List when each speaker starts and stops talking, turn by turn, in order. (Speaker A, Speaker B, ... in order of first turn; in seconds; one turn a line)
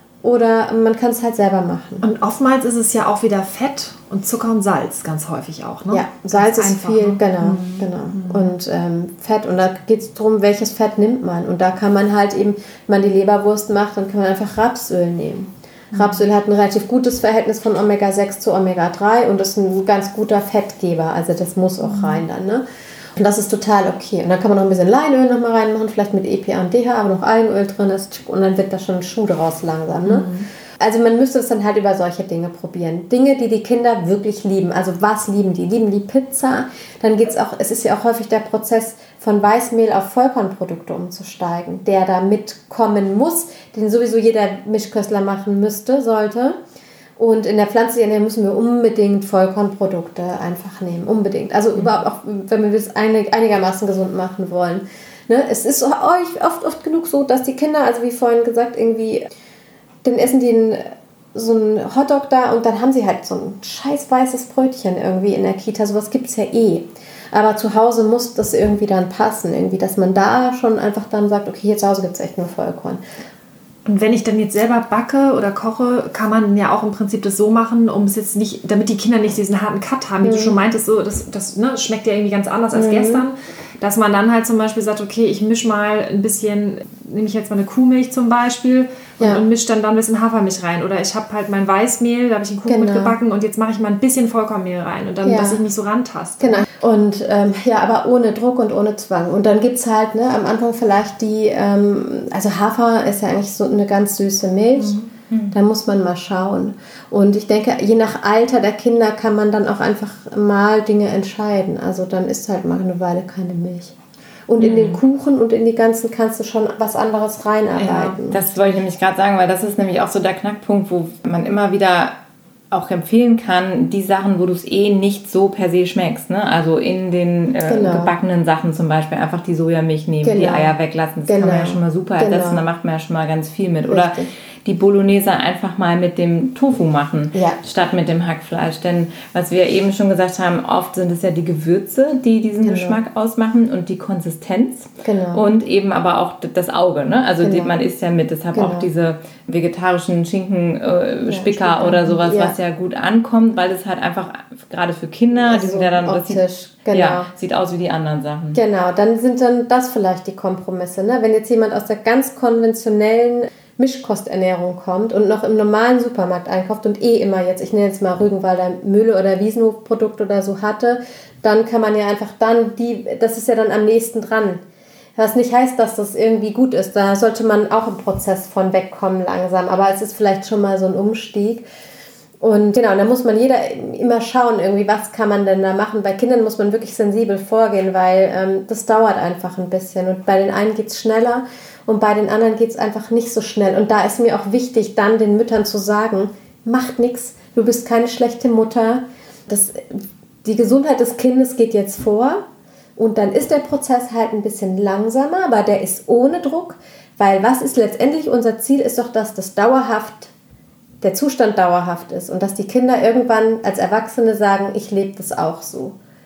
Speaker A: 0.2-2.0
Speaker B: 2.0-8.5
Speaker A: 5.9-22.6
Speaker B: 15.9-16.2
Speaker B: 21.9-22.2
Speaker A: 23.2-30.3
Speaker B: 30.0-30.4
Speaker A: 30.8-46.6
Speaker A: 47.2-59.3
Speaker A: 60.0-73.0
Speaker B: 73.8-96.6
Speaker A: 80.2-80.6
Speaker A: 82.7-83.2
Speaker A: 92.7-93.1
Speaker A: 95.2-95.6
Speaker A: 96.4-105.0
Speaker B: 104.8-105.1
Speaker A: 105.5-113.9
Speaker A: 114.5-118.4
Speaker C: 114.6-115.0
Speaker C: 117.9-122.1
Speaker C: 122.7-158.6
Speaker A: 127.7-128.1
Speaker A: 130.2-130.7
Speaker A: 131.3-132.6
Speaker A: 133.9-134.3
Speaker A: 142.6-143.0
Speaker A: 145.0-145.4
Speaker A: 147.4-147.7
Speaker A: 148.5-148.9
Speaker A: 151.2-152.6
Speaker A: 155.3-157.3
Speaker A: 158.5-174.6
Speaker A: 175.2-181.6
Speaker A: 182.4-202.4
Speaker A: 203.0-210.3
Speaker A: 211.0-215.9